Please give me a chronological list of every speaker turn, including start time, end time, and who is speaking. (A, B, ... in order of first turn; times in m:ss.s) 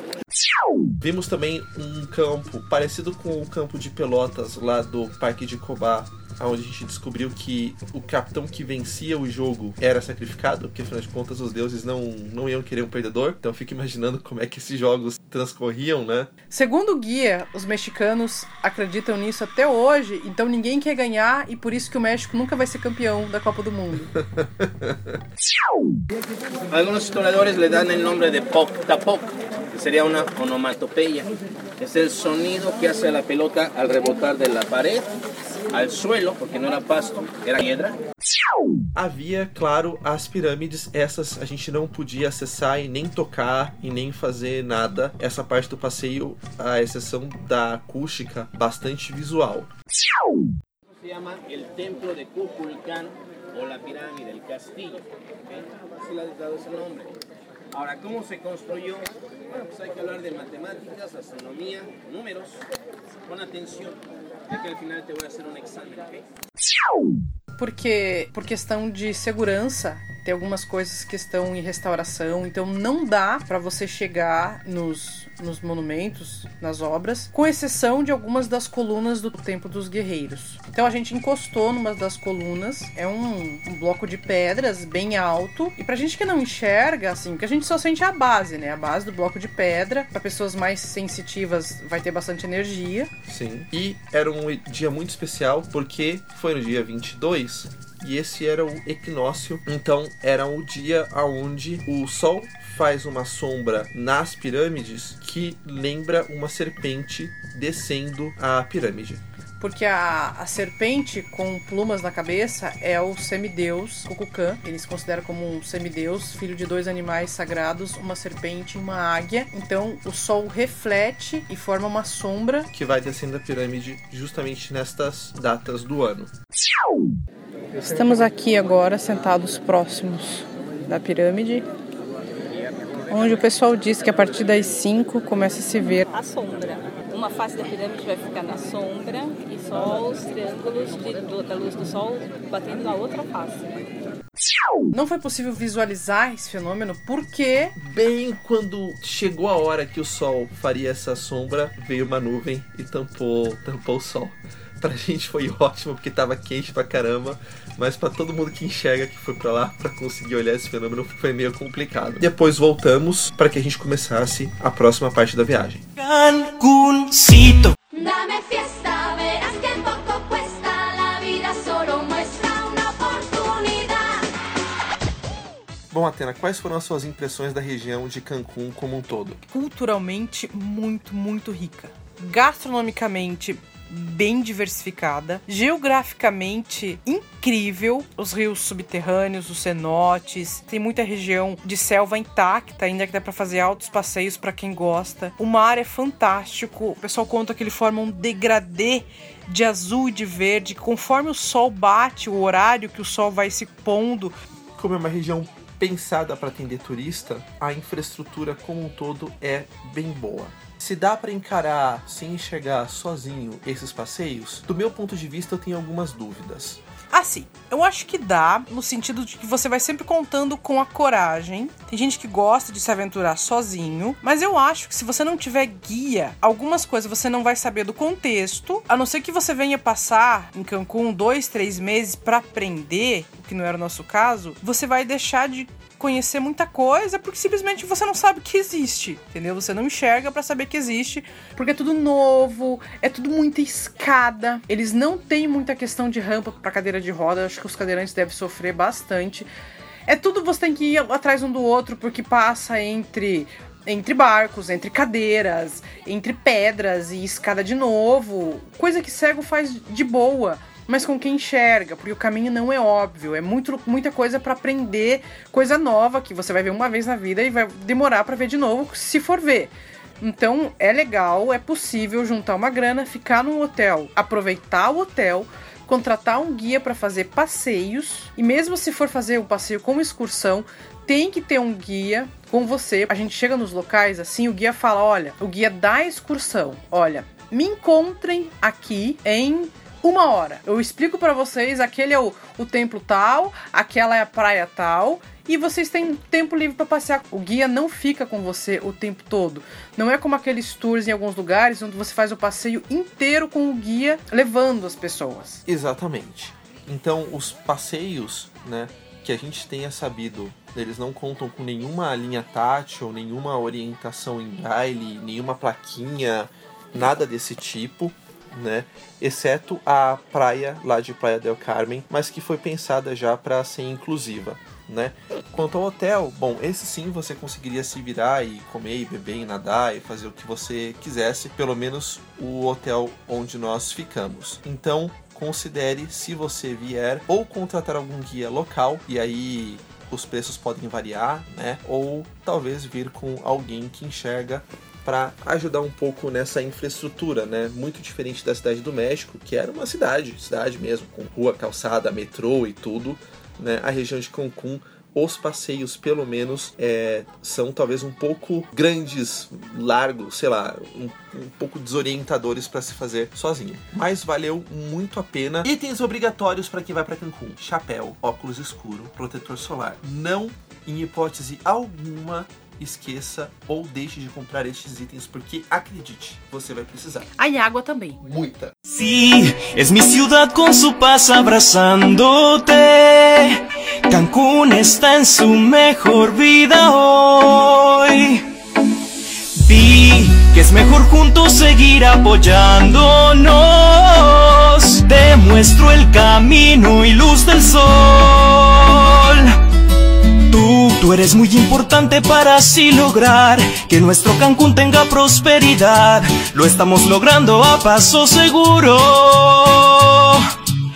0:01.0-0:16.3 A
0:16.5-0:24.1 B
0:24.3-0:25.2 A
0:26.7-0:35.1 C
0:35.7-0:38.0 C
0:38.9-0:49.7 A
0:51.0-0:57.1 C
0:57.7-1:02.6 C
1:03.2-1:06.2 C
1:07.6-1:33.1 B
1:33.3-1:49.2 A
1:49.6-2:02.7 B
2:02.7-2:06.3 A
2:07.8-2:11.6 B
2:13.1-2:16.1 B
2:16.1-2:23.7 D
2:24.9-2:27.8 B
2:27.8-2:45.8 A
2:46.0-2:47.8 E
2:47.9-2:54.3 F
2:55.9-2:59.4 A
2:59.5-3:24.3 B
3:24.8-3:36.8 A
3:37.1-4:09.5 B
4:10.1-5:05.6 B
5:05.6-6:17.3 A
6:17.4-6:18.2 B
6:18.2-6:18.7 A
6:18.9-6:28.5 E
6:29.6-6:39.6 E
6:40.5-6:50.5 E